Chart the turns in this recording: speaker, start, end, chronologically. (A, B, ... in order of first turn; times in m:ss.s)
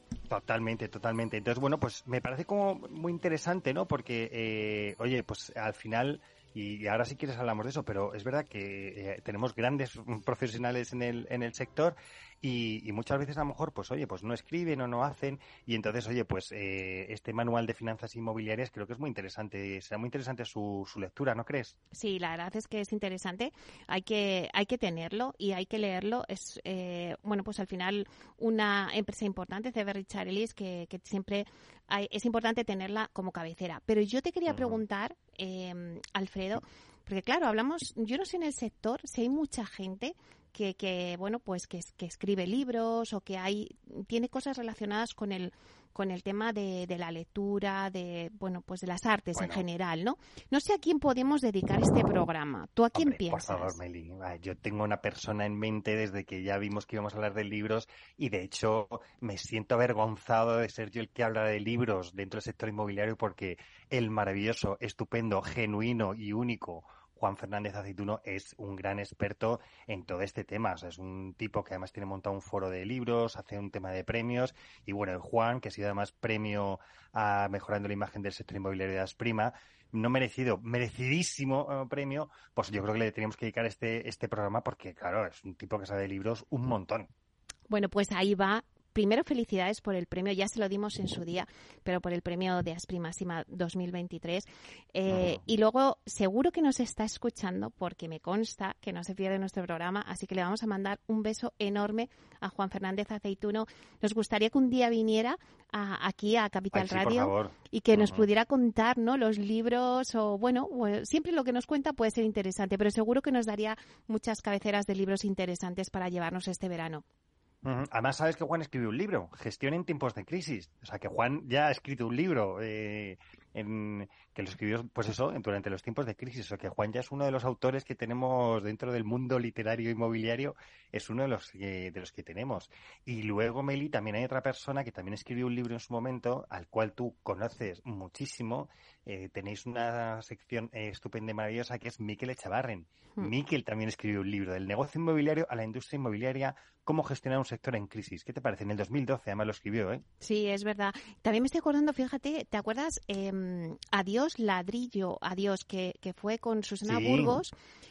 0:00.3-0:21.8 A
0:21.9-0:53.8 B
0:34.5-0:34.8 A
0:49.4-0:49.6 A
0:52.9-1:27.1 A
1:27.7-1:57.0 B
1:35.1-1:35.4 A
1:46.7-1:48.3 A
1:57.6-2:30.0 A
2:30.2-2:37.5 B
2:36.8-2:37.4 A